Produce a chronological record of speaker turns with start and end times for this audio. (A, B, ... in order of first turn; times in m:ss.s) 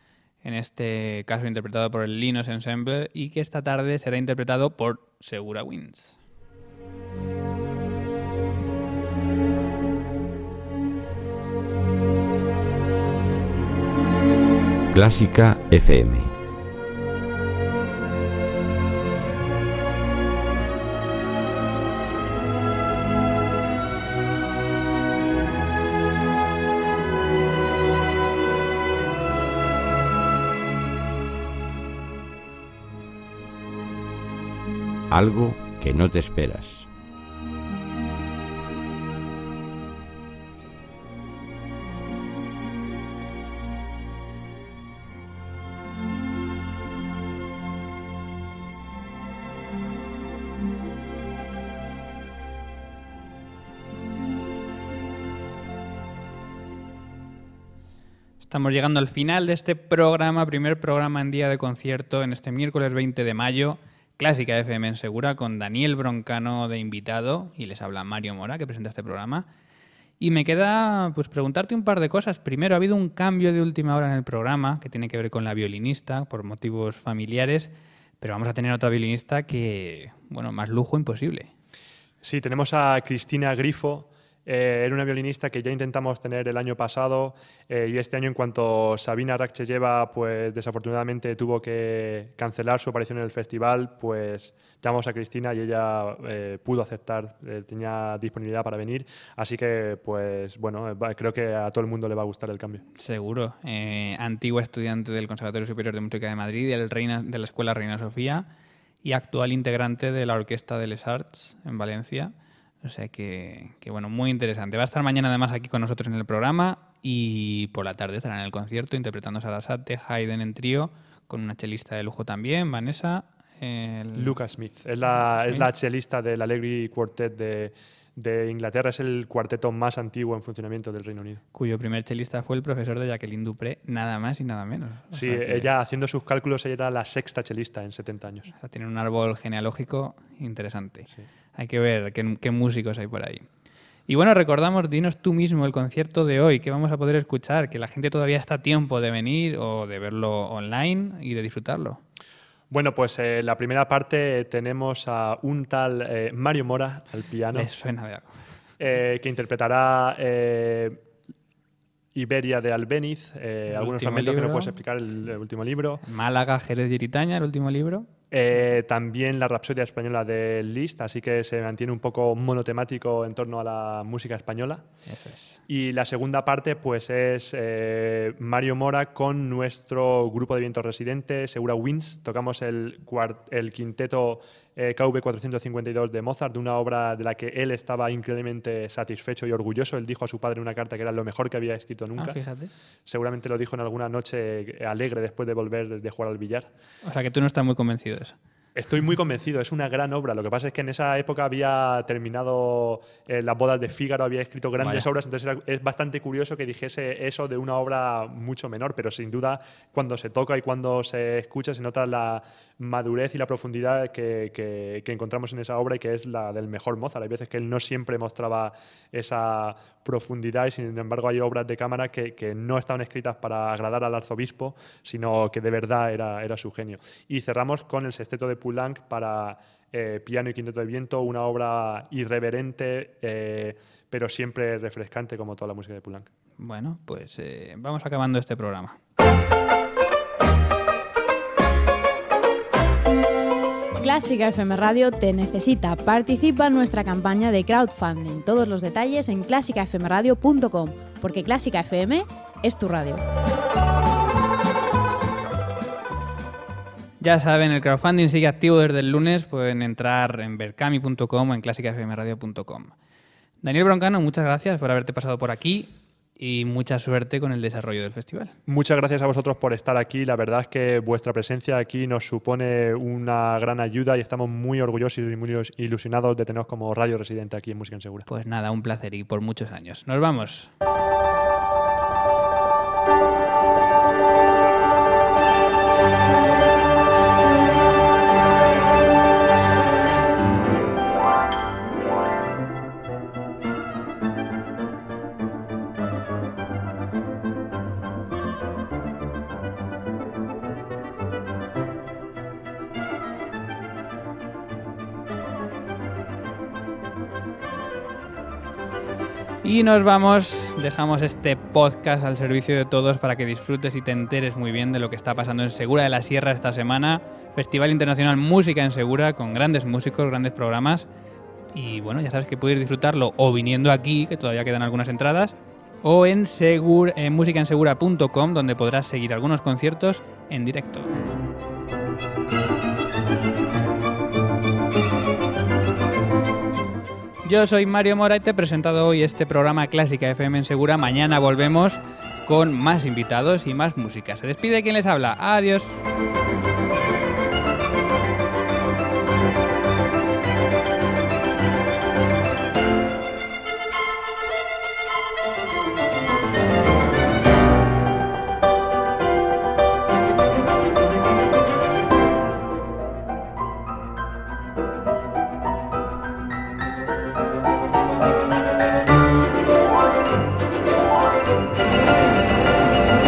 0:00.4-0:06.2 A
0:14.9-0:16.3 B
0:35.1-0:36.9 B
0:58.4-1:09.5 A
1:10.2-1:21.5 A
1:22.2-1:42.8 C
1:43.0-1:48.5 A
1:49.0-2:04.4 A
2:04.2-2:11.4 C
2:05.2-2:05.7 A
2:11.5-2:15.7 A
2:15.1-2:18.5 C
2:18.5-2:23.4 A
2:24.1-2:32.0 A
2:32.7-2:37.7 C
2:37.5-2:38.4 A
2:38.8-2:41.0 C
2:42.2-2:46.0 C
2:43.7-2:44.7 A
2:46.0-2:48.1 A
2:48.3-2:54.9 C
2:55.1-2:55.6 A
2:55.7-3:12.4 C
3:12.2-3:12.7 A
3:13.1-3:16.7 C
3:17.0-3:18.4 A
3:18.8-3:56.3 C
3:24.8-3:25.1 A
3:56.6-3:59.0 A
4:04.0-4:13.2 D
4:17.2-4:23.0 A
4:23.6-4:28.6 A
4:28.7-4:38.3 C
4:38.3-4:40.7 A
5:09.6-5:21.1 A
5:21.7-5:31.1 A
5:37.4-5:46.0 A